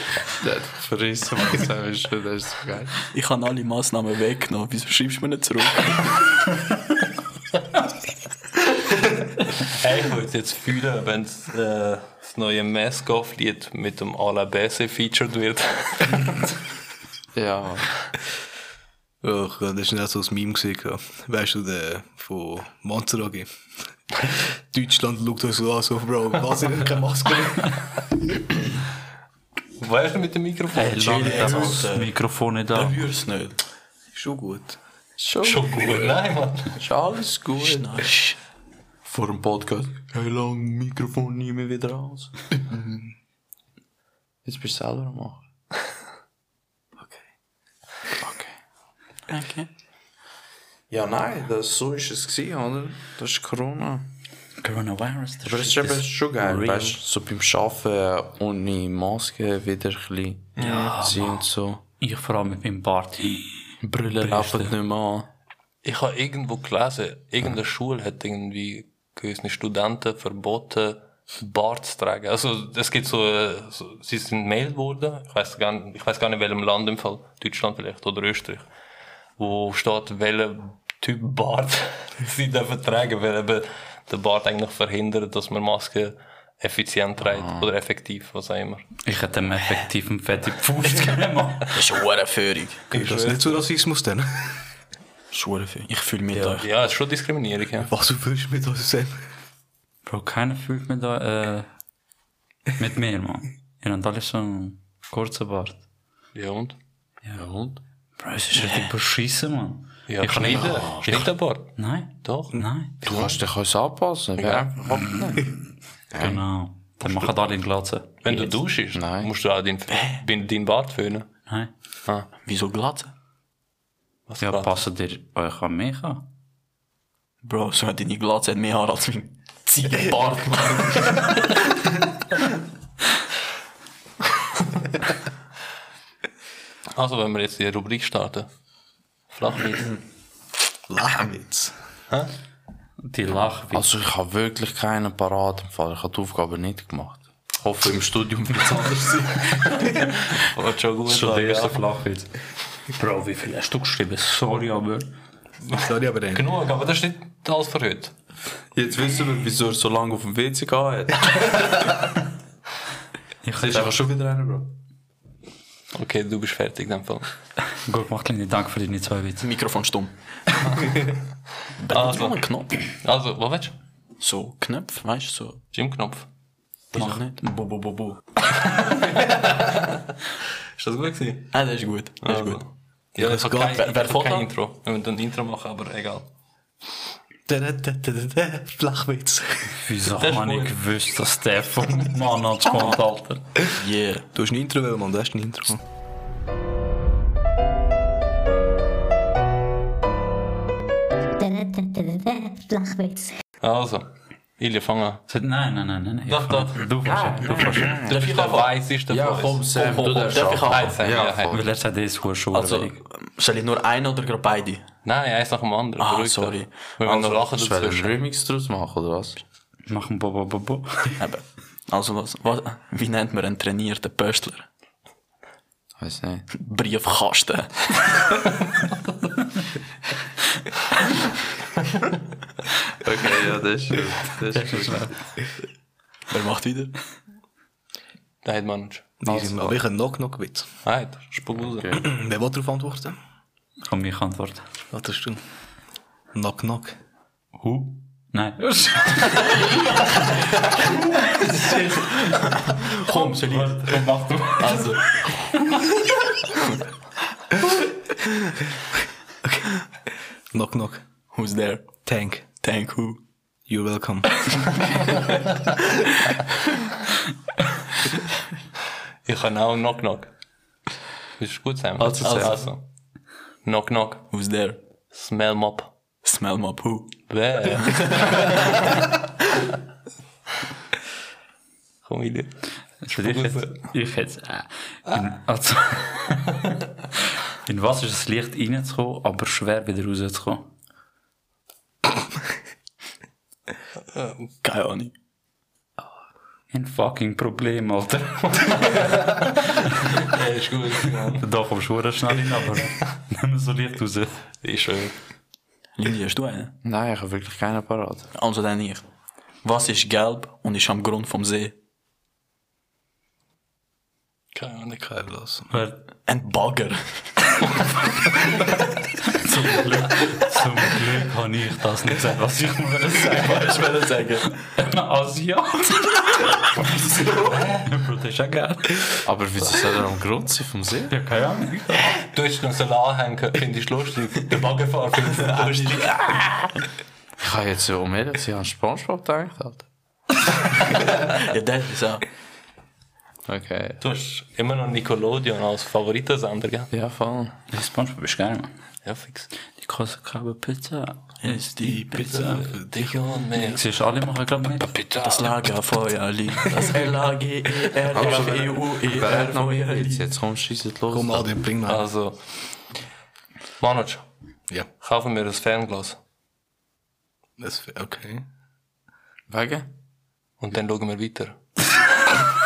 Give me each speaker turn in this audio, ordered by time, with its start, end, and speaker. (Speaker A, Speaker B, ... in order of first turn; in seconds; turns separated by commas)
Speaker A: 0.4-2.9, Speaker B: 3.1-6.3, Speaker C: 9.5-16.5, Speaker A: 17.3-17.9, Speaker D: 19.2-23.5, Speaker D: 24.1-28.1, Speaker C: 29.8-31.8, Speaker E: 30.7-33.0, Speaker B: 30.9-32.2, Speaker B: 32.7-33.6, Speaker D: 34.1-34.8, Speaker A: 35.2-36.2, Speaker C: 35.4-36.7, Speaker A: 36.8-38.0, Speaker B: 37.6-38.4, Speaker A: 39.0-42.3, Speaker A: 44.4-45.4, Speaker B: 49.3-49.7, Speaker A: 50.9-54.1, Speaker E: 54.6-57.0, Speaker A: 55.4-61.8, Speaker C: 60.6-61.0, Speaker E: 60.6-61.4, Speaker E: 62.0-64.7, Speaker A: 63.8-65.3, Speaker C: 65.8-78.7, Speaker C: 79.4-88.8, Speaker A: 87.3-87.7, Speaker E: 89.0-91.8, Speaker B: 91.7-92.9, Speaker C: 92.9-93.7, Speaker D: 92.9-94.6, Speaker B: 95.3-96.7, Speaker C: 96.4-97.9, Speaker D: 97.8-99.1, Speaker E: 100.0-101.7, Speaker E: 102.8-105.8, Speaker C: 106.3-106.8, Speaker A: 107.3-107.8, Speaker E: 108.2-113.2, Speaker B: 108.6-108.9, Speaker C: 110.1-113.3, Speaker A: 113.0-115.5, Speaker A: 116.1-116.4, Speaker E: 116.2-118.1, Speaker C: 117.0-117.3, Speaker C: 118.2-121.3, Speaker A: 118.9-119.3, Speaker B: 119.9-120.2, Speaker B: 122.4-123.1, Speaker C: 124.3-124.8, Speaker E: 124.4-126.2, Speaker B: 127.4-131.9, Speaker C: 136.9-138.5, Speaker C: 139.3-139.9, Speaker D: 140.9-141.7, Speaker E: 143.0-143.8, Speaker A: 143.7-149.3, Speaker C: 149.9-151.8, Speaker E: 151.1-152.3, Speaker E: 152.9-155.1, Speaker C: 155.7-158.1, Speaker D: 155.7-156.4, Speaker A: 158.7-161.8, Speaker E: 163.4-164.0, Speaker A: 163.6-164.7, Speaker C: 165.9-167.3, Speaker E: 167.7-169.5, Speaker B: 169.4-170.1, Speaker B: 171.8-172.8, Speaker C: 171.9-173.7, Speaker B: 174.2-175.6, Speaker C: 175.7-176.3, Speaker B: 176.9-178.4, Speaker C: 178.5-180.0, Speaker C: 180.8-181.6, Speaker B: 181.5-182.6, Speaker C: 182.2-186.3, Speaker D: 183.2-183.8, Speaker B: 183.7-184.4, Speaker D: 187.5-189.8, Speaker E: 189.8-193.5, Speaker C: 190.1-190.8, Speaker B: 193.8-194.3, Speaker D: 194.3-195.8, Speaker F: 201.4-203.4, Speaker C: 203.6-205.2, Speaker E: 205.3-208.1, Speaker C: 206.2-206.9, Speaker A: 207.0-208.1, Speaker C: 208.0-209.8, Speaker B: 208.1-208.7, Speaker A: 209.1-211.6, Speaker B: 209.7-211.1, Speaker C: 210.7-211.6, Speaker E: 211.5-213.0, Speaker B: 212.5-214.8, Speaker C: 215.0-218.2, Speaker B: 216.0-216.7, Speaker A: 217.0-219.4, Speaker E: 219.9-221.2, Speaker B: 221.2-224.7, Speaker A: 226.0-226.5, Speaker B: 226.5-228.4, Speaker A: 233.0-235.1, Speaker E: 234.5-235.1, Speaker B: 236.3-237.0, Speaker C: 238.4-239.1, Speaker D: 239.2-240.7, Speaker A: 239.2-239.8, Speaker C: 240.8-241.9, Speaker A: 241.7-242.0, Speaker D: 241.9-243.2, Speaker E: 243.8-244.6, Speaker D: 244.9-245.4, Speaker D: 246.3-246.9, Speaker E: 247.6-250.3, Speaker E: 251.2-252.3, Speaker B: 251.5-255.3, Speaker E: 253.1-255.8, Speaker D: 260.5-261.0, Speaker B: 261.3-261.9, Speaker D: 262.1-262.4, Speaker B: 262.6-263.2, Speaker D: 263.7-265.1, Speaker C: 269.2-270.3, Speaker C: 271.4-272.8, Speaker A: 272.0-272.5, Speaker B: 272.2-272.6, Speaker C: 273.6-274.3, Speaker B: 274.3-274.8, Speaker C: 275.1-275.9, Speaker B: 276.2-277.2, Speaker C: 277.3-278.7, Speaker B: 277.9-278.5, Speaker C: 282.0-283.9, Speaker E: 283.0-286.7, Speaker E: 287.6-290.7, Speaker B: 294.6-295.1, Speaker E: 296.7-300.2, Speaker C: 298.6-299.4, Speaker C: 300.2-301.4, Speaker E: 301.3-304.4, Speaker C: 304.6-305.1, Speaker B: 306.0-306.7, Speaker A: 306.8-308.3, Speaker B: 308.3-309.0, Speaker B: 309.6-311.7, Speaker C: 314.5-315.1, Speaker D: 315.0-315.7, Speaker E: 315.7-316.0, Speaker B: 316.3-317.8, Speaker E: 319.2-323.9, Speaker B: 323.2-324.6, Speaker E: 324.6-329.1, Speaker C: 327.4-327.9, Speaker A: 329.2-331.1, Speaker E: 331.1-332.1, Speaker C: 332.2-336.2, Speaker B: 335.4-336.3, Speaker A: 337.4-339.9, Speaker B: 341.0-342.2, Speaker A: 343.4-344.0, Speaker C: 344.0-346.9, Speaker A: 346.9-347.6, Speaker E: 347.7-348.7, Speaker C: 349.0-349.5, Speaker E: 349.8-352.7, Speaker B: 351.4-352.3, Speaker D: 352.2-353.1, Speaker C: 352.2-353.8, Speaker E: 353.5-355.1, Speaker C: 354.9-355.5, Speaker B: 355.2-360.3, Speaker A: 358.1-361.6, Speaker D: 361.1-362.0, Speaker C: 361.9-362.4, Speaker C: 363.8-364.2, Speaker C: 365.0-366.2, Speaker D: 367.6-368.4, Speaker A: 369.5-369.9, Speaker C: 370.6-371.6